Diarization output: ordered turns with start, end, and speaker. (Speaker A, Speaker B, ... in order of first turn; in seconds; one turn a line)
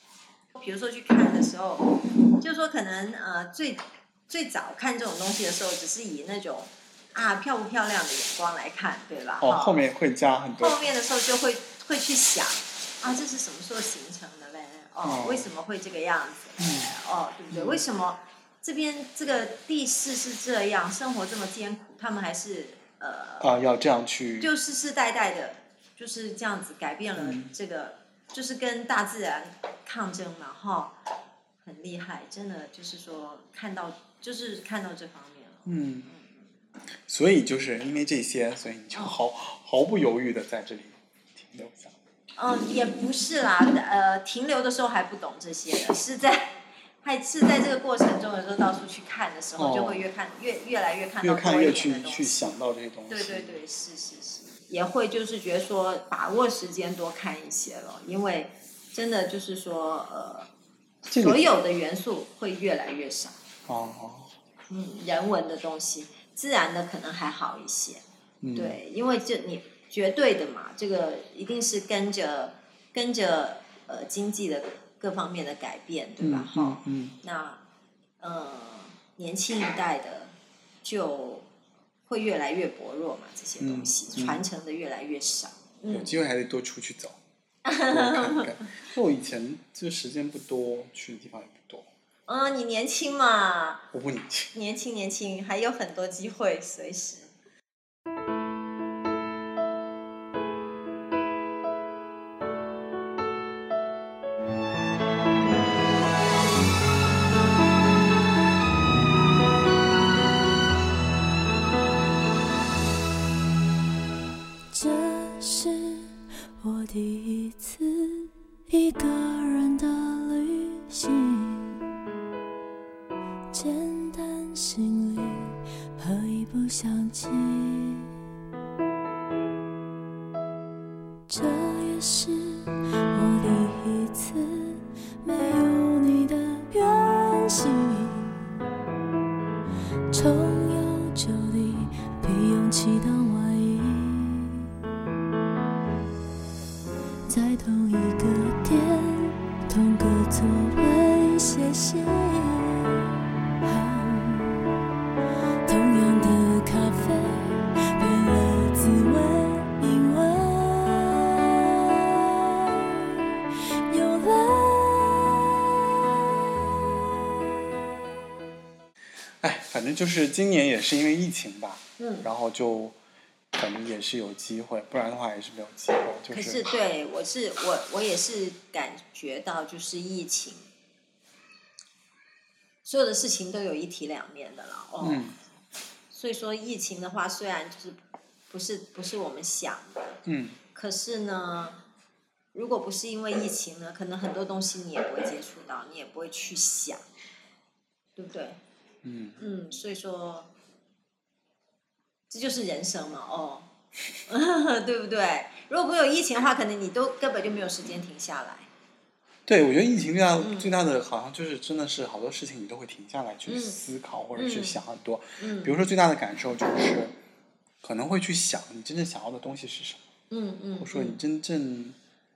Speaker A: 0.5-9.8
Speaker B: 9.4-10.8
Speaker A: 10.6-23.5
Speaker B: 15.0-15.5
Speaker B: 16.6-16.9
Speaker B: 17.5-17.8
Speaker B: 23.4-24.5
Speaker A: 24.4-30.9
Speaker B: 27.2-27.5
Speaker A: 31.6-36.4
Speaker B: 35.6-36.1
Speaker B: 37.1-41.9
Speaker A: 42.4-52.5
Speaker B: 49.6-50.0
Speaker B: 51.2-53.6
Speaker A: 53.1-60.5
Speaker B: 61.1-61.5
Speaker A: 61.1-63.4
Speaker B: 63.7-64.3
Speaker A: 64.7-68.0
Speaker B: 68.4-68.8
Speaker A: 68.5-77.6
Speaker B: 76.2-77.2
Speaker A: 78.2-80.3
Speaker A: 80.8-81.5
Speaker A: 82.1-86.1
Speaker B: 83.6-84.4
Speaker B: 85.9-87.2
Speaker A: 87.6-88.7
Speaker B: 87.9-91.9
Speaker A: 92.3-93.8
Speaker B: 93.9-94.5
Speaker A: 94.5-97.3
Speaker C: 114.7-121.8
Speaker C: 123.5-128.1
Speaker C: 131.3-138.4
Speaker C: 140.1-144.7
Speaker C: 147.3-153.1
Speaker C: 153.6-154.7
Speaker C: 155.7-162.8
Speaker C: 163.9-165.7
Speaker B: 169.4-172.9
Speaker A: 172.0-172.3
Speaker B: 173.5-176.6
Speaker A: 176.3-180.6
Speaker A: 182.8-185.2
Speaker B: 185.0-185.3
Speaker A: 186.1-190.2
Speaker B: 190.2-190.6
Speaker A: 190.7-191.8
Speaker A: 192.5-197.0
Speaker A: 198.2-198.6
Speaker B: 199.0-199.4
Speaker A: 199.4-200.5
Speaker A: 202.3-203.7
Speaker A: 204.3-208.7
Speaker B: 209.5-217.1
Speaker A: 210.4-210.7
Speaker A: 213.5-213.8
Speaker A: 214.3-214.8
Speaker A: 215.4-215.7
Speaker B: 217.8-220.0
Speaker A: 220.3-221.2
Speaker B: 220.8-222.0